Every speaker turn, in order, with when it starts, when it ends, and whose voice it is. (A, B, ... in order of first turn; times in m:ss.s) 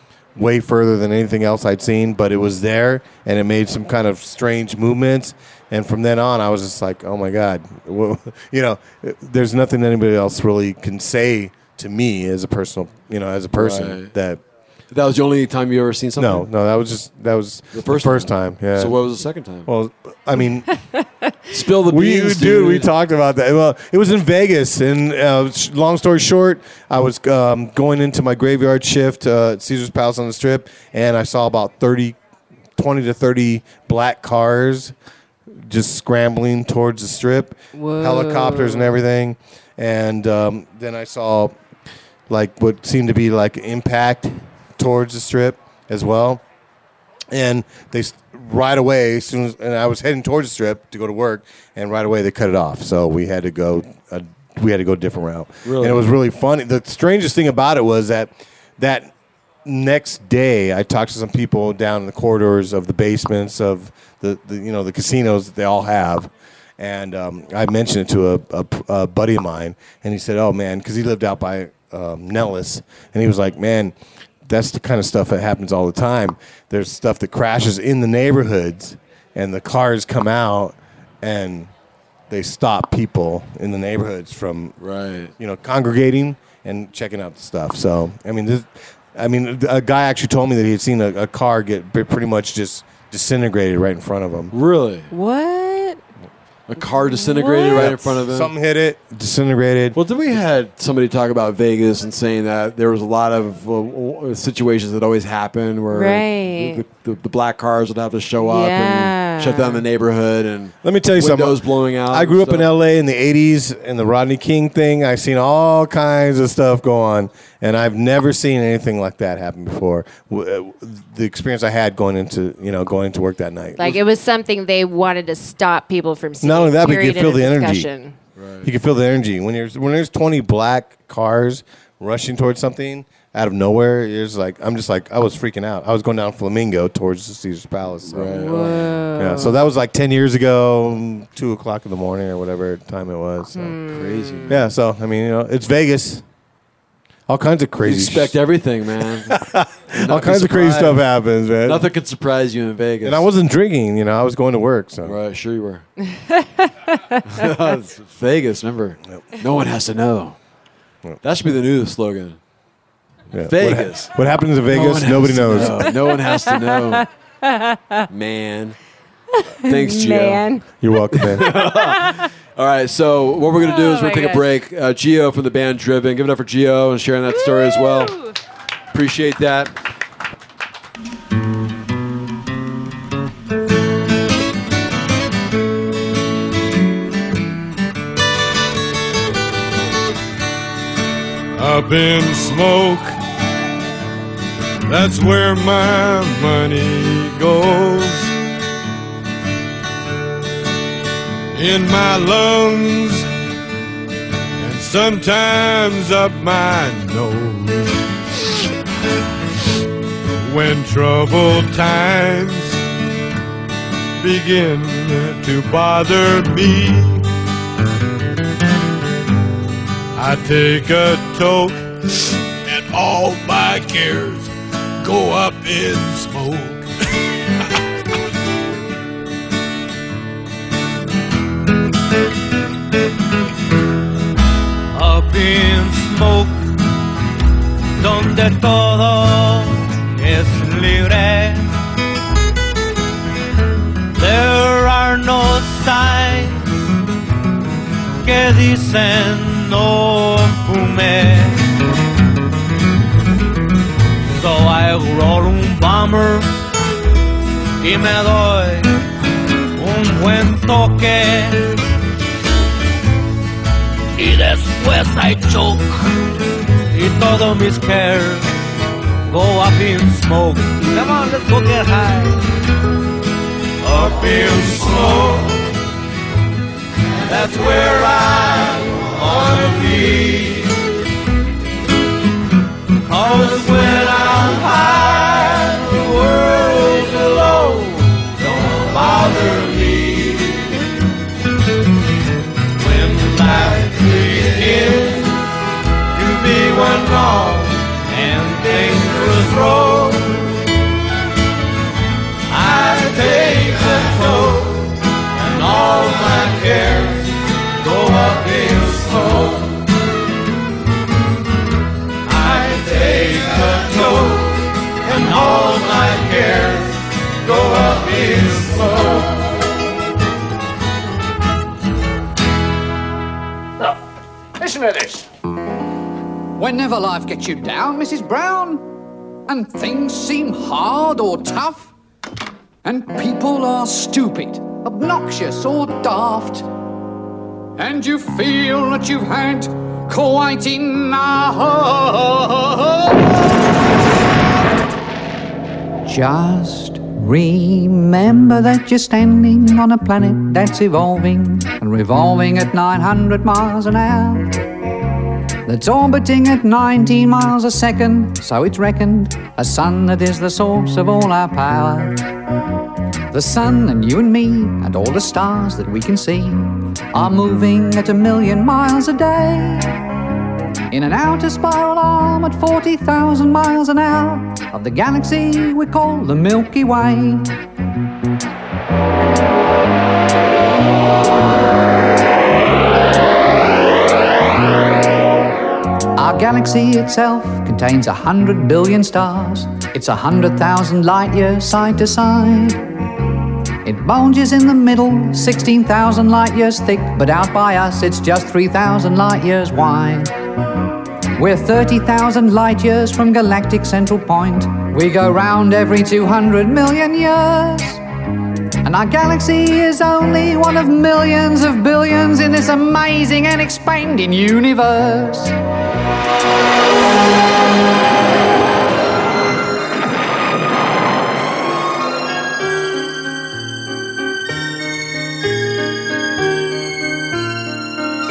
0:00.4-0:14.4 A
0:13.6-0:14.1 B
0:14.9-0:16.5 B
0:16.2-0:19.0 A
0:17.7-0:19.7 B
0:19.7-0:20.7 A
0:21.5-0:22.9 B
0:21.9-0:32.2 A
0:32.8-0:34.9 A
0:35.7-0:41.6 A
0:37.8-0:39.0 C
0:42.3-0:46.4 A
0:47.3-0:59.1 A
0:55.6-0:56.1 B
0:59.6-1:14.0 A
1:14.5-1:21.7 A
1:22.3-1:24.8 A
1:24.8-1:25.3 B
1:25.4-1:34.5 A
1:34.5-1:35.1 B
1:35.1-1:36.0 C
1:36.7-1:38.5 B
1:37.0-1:38.0 C
1:37.7-1:40.0 A
1:40.0-1:52.7 B
1:45.9-1:46.8 C
1:48.4-1:49.8 C
1:50.8-2:04.0 A
2:03.8-2:08.2 C
2:06.4-2:07.9 A
2:08.4-2:08.7 B
2:08.6-2:18.5 A
2:18.1-2:18.9 B
2:18.3-2:19.6 C
2:19.2-2:23.8 A
2:23.6-2:24.5 C
2:23.9-2:24.6 B
2:24.5-2:26.2 A
2:27.3-2:28.4 A
2:27.8-2:29.4 B
2:29.3-2:31.9 A
2:30.0-2:31.0 B
2:31.6-2:33.3 B
2:33.0-2:35.2 A
2:35.0-2:35.9 B
2:37.3-2:40.4 B
2:41.2-2:42.4 B
2:43.3-2:46.0 A
2:43.5-2:44.1 B
2:44.7-2:47.1 B
2:45.6-2:48.1 C
2:48.1-2:48.8 B
2:49.3-2:50.6 C
2:49.6-2:50.5 B
2:50.8-2:51.5 A
2:51.2-2:58.2 B
2:51.4-2:52.2 C
2:53.6-2:54.5 C
2:57.3-2:58.3 C
2:58.9-2:59.7 B
3:11.6-3:13.2 D
3:14.9-3:18.3 D
3:21.5-3:23.3 D
3:24.6-3:28.0 D
3:30.4-3:32.8 D
3:34.2-3:37.2 D
3:40.2-3:44.5 D
3:45.0-3:46.9 D
3:54.9-3:56.7 E
3:58.0-4:01.7 E
4:04.2-4:06.6 E
4:08.2-4:11.6 E
4:14.3-4:16.5 E
4:17.8-4:18.9 E
4:19.8-4:21.7 E
4:24.2-4:25.9 E
4:26.9-4:28.5 E
4:29.3-4:32.4 E
4:33.8-4:35.6 E
4:37.2-4:40.7 E
4:43.1-4:50.8 E
4:52.8-4:55.3 E
4:56.1-5:00.5 E
5:02.5-5:09.7 E
5:12.2-5:19.3 E
5:24.6-5:25.3 F
5:26.6-5:28.9 F
5:29.5-5:31.9 F
5:32.8-5:36.7 F
5:37.8-5:43.2 F
5:46.0-5:54.6 F
5:55.7-6:02.2 F
6:03.3-6:10.0 F
6:10.9-6:17.6 F
6:26.2-6:32.8 F
6:33.8-6:40.3 F
6:41.4-6:48.0 F
6:48.8-6:55.6 F